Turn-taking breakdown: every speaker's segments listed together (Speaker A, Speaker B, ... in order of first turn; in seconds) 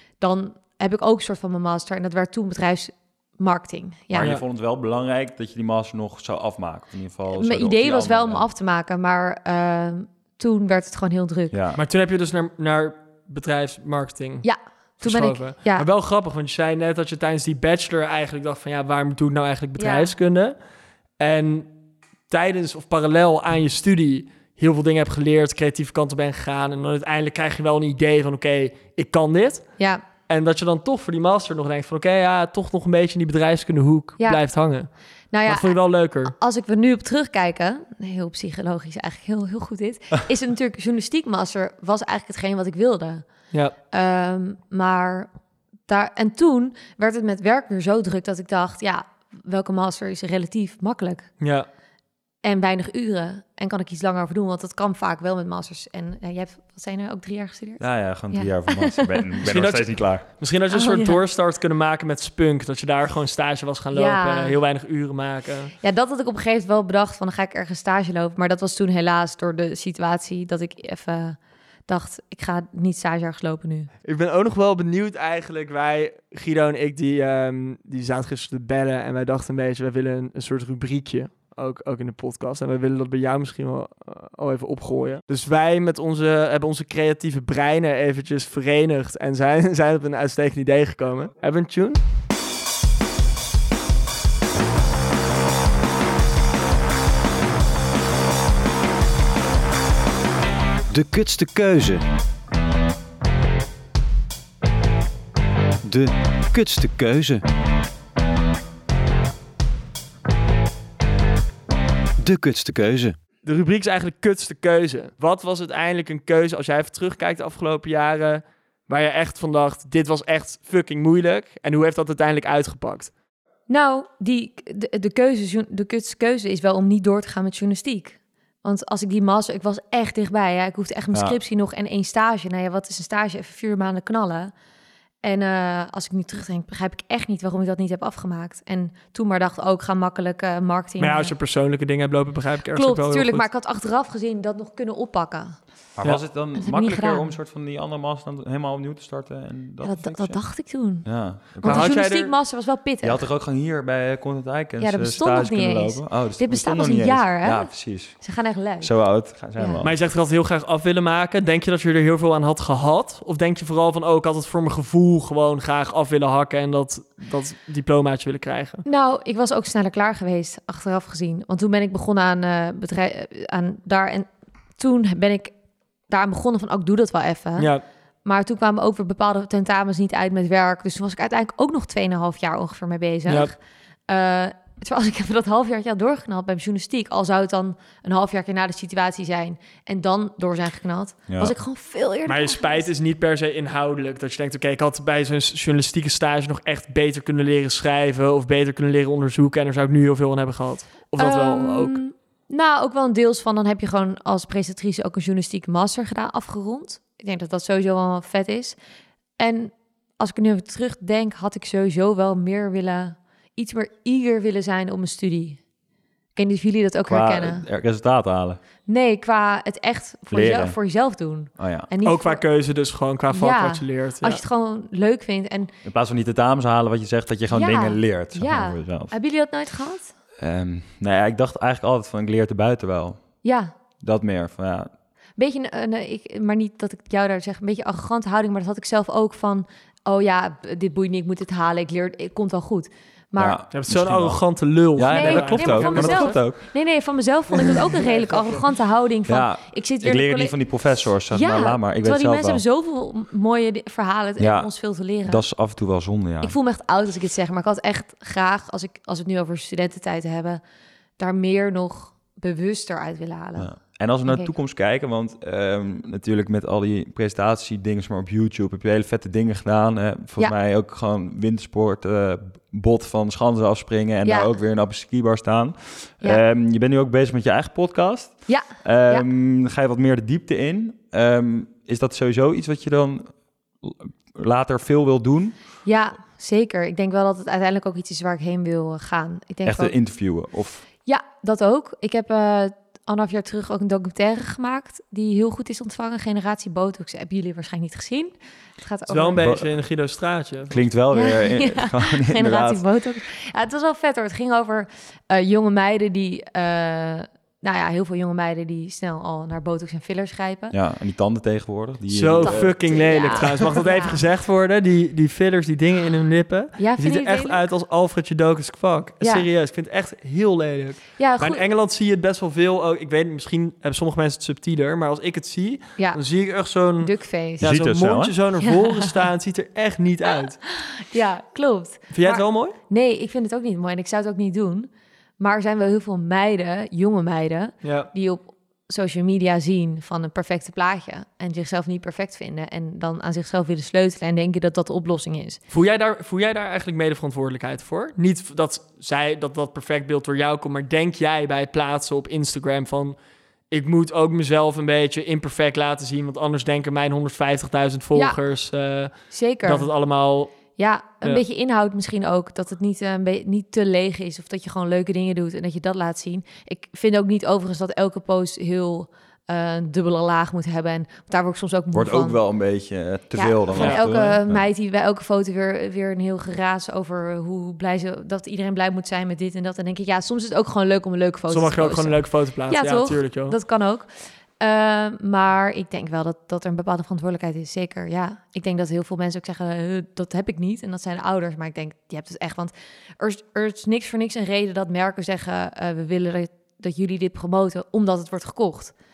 Speaker A: 0.2-4.3, 7.3-11.6, 14.4-15.9, 19.8-20.1, 29.8-30.0, 34.2-34.6, 35.3-43.3, 43.9-45.3, 45.9-51.3, 52.4-59.3, 60.7-61.2, 63.9-64.6, 65.8-73.9, 123.7-134.5, 135.2-141.3, 142.7-145.6, 146.6-147.3, 149.8-153.2, 154.8-159.8, 168.9-174.3, 174.8-175.5, 176.1-177.7, 178.2-192.9, 201.2-208.8, 209.4-215.6, 216.3-217.7, 218.9-222.4, 223.3-225.7, 227.5-230.1, 233.4-233.7, 235.4-243.6, 245.0-250.7, 251.3-255.4, 256.4-260.6, 261.2-264.5, 274.2-274.5, 278.5-279.3, 285.9-289.9, 291.1-299.5, 301.1-310.8, 312.4-314.2, 316.8-317.7, 319.2-319.5, 321.2-321.7, 326.0-327.7, 328.6-329.1, 330.7-334.9, 335.4-345.6, 358.1-358.4, 359.1-359.9, 360.8-372.5, 373.3-398.9
Speaker B: 4.1-8.5, 11.5-11.8, 57.8-60.3, 146.0-150.4, 151.0-151.9, 153.0-160.0, 191.3-191.6, 217.1-218.6, 220.3-220.8, 221.6-221.9, 225.8-229.1, 230.4-233.3, 234.0-234.9, 243.4-246.6, 249.3-252.6, 254.4-254.7, 255.2-256.6, 263.6-285.6, 289.6-290.9, 299.4-299.7, 300.7-302.8, 310.7-313.6, 327.6-328.4, 371.9-374.6
Speaker C: 11.8-14.5, 15.0-20.6, 21.2-21.7, 22.3-34.9, 35.5-36.3, 51.4-51.7, 59.5-65.7, 74.0-92.0, 113.4-123.1, 141.0-143.5, 151.6-152.3, 159.8-168.8, 177.6-177.8, 183.3-183.5, 192.3-202.0, 222.1-224.4, 243.7-246.4, 247.7-248.6, 299.1-300.8, 312.1-330.6, 332.1-332.8, 337.8-338.1, 345.7-360.5, 373.8-374.3, 381.5-383.6
Speaker D: 100.9-102.0, 105.8-107.4, 112.2-113.2